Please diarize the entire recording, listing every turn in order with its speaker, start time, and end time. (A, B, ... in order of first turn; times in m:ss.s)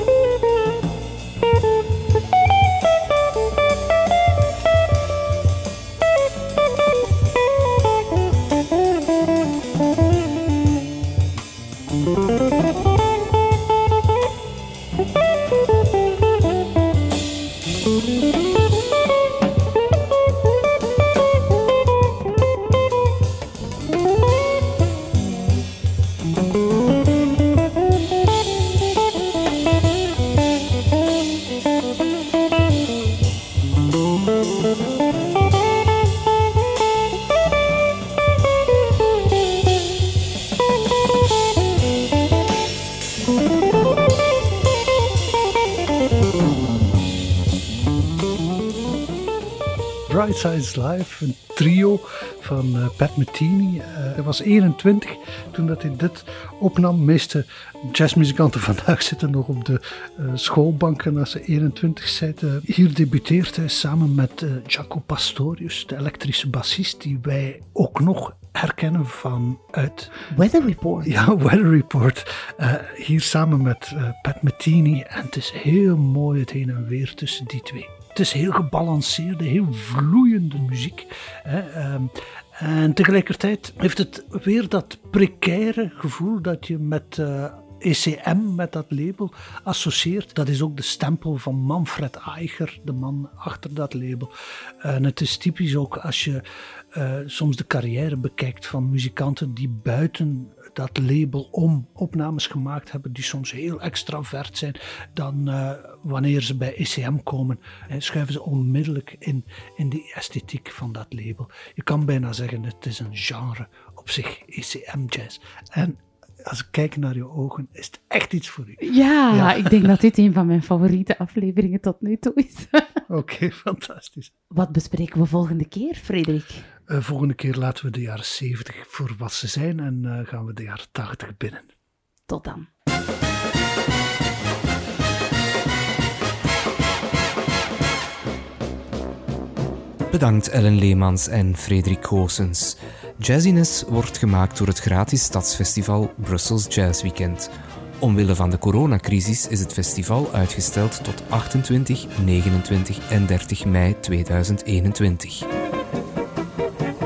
0:50.1-1:10.1 A
1:10.3-1:11.2 B
1:11.0-1:59.9 A
1:58.8-2:03.0 B
2:03.1-2:04.3 A
2:04.5-2:06.7 B
2:06.9-2:11.7 A
2:12.3-2:12.7 B
2:20.1-2:35.5 C